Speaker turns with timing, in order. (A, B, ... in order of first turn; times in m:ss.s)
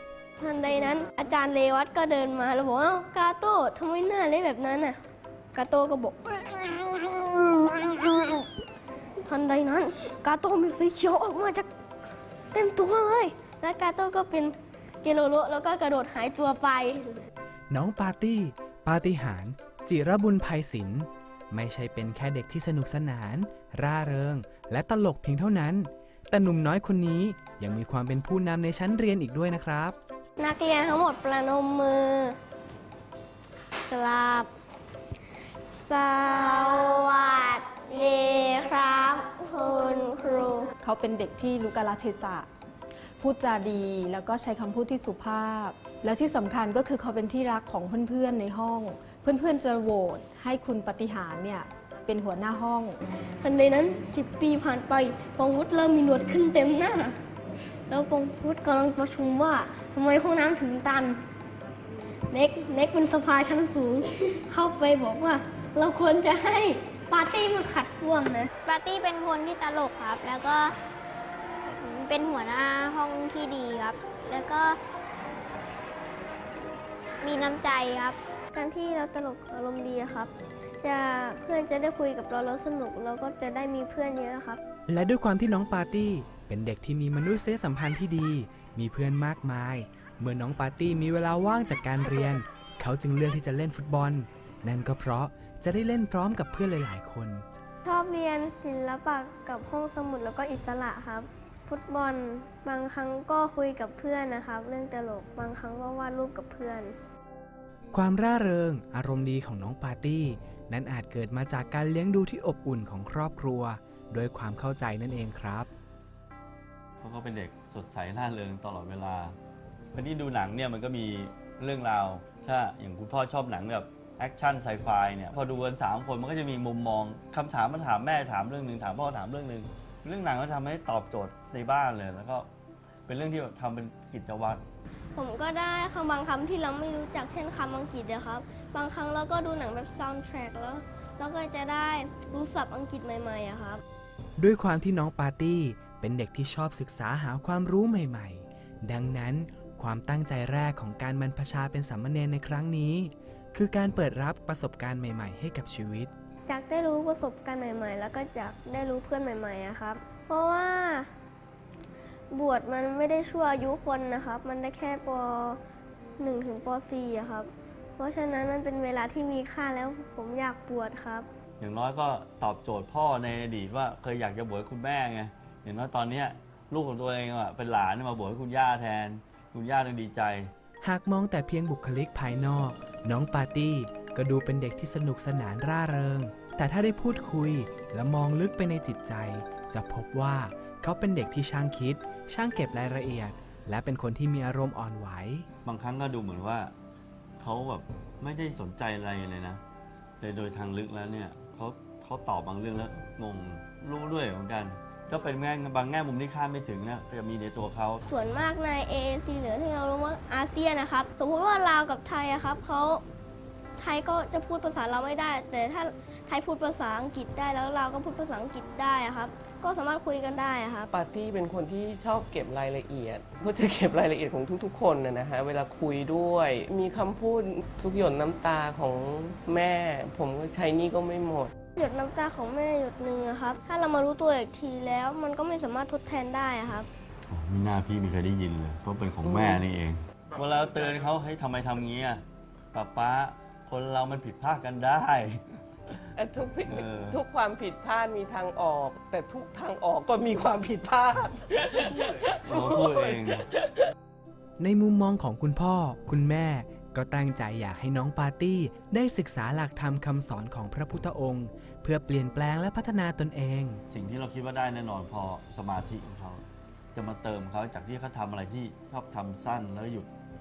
0:00.4-0:05.0 A
0:05.5-0:08.5 A
0:09.2-0:11.7 A
0:12.5-0:17.2 A
0:17.7-0:30.0 B
0:30.4-0:32.4 A
0:33.9-0:34.5 A
0:35.6-0:40.7 A
0:40.8-0:42.5 C
0:43.2-0:53.0 C
0:53.4-0:57.2 A
0:57.9-1:01.2 A
1:02.3-1:08.5 A
1:08.6-1:10.7 D
1:11.8-1:14.8 D
1:17.2-1:18.2 D
1:18.5-1:20.3 A
1:20.8-1:24.6 A
1:24.9-1:37.4 B
1:37.8-1:46.9 A
1:47.9-1:55.7 B
1:57.0-1:59.4 E
1:59.9-2:12.5 E
2:13.1-2:14.6 E
2:15.2-2:23.8 A
2:24.4-2:36.1 B
2:36.5-2:41.1 A
2:42.3-2:45.6 A
2:46.2-2:51.3 A
2:51.6-3:00.5 E
3:00.8-3:15.5 B
3:15.6-3:16.7 E
3:17.4-3:19.6 E
3:20.2-3:28.0 E
3:28.1-3:33.0 A
3:33.8-3:40.9 A
3:40.9-3:51.5 F
3:51.8-3:56.9 A
3:57.3-4:05.4 E
4:06.2-4:13.0 F
4:06.6-4:07.2 E
4:12.4-4:13.5 E
4:14.6-4:23.8 B
4:23.9-4:30.1 E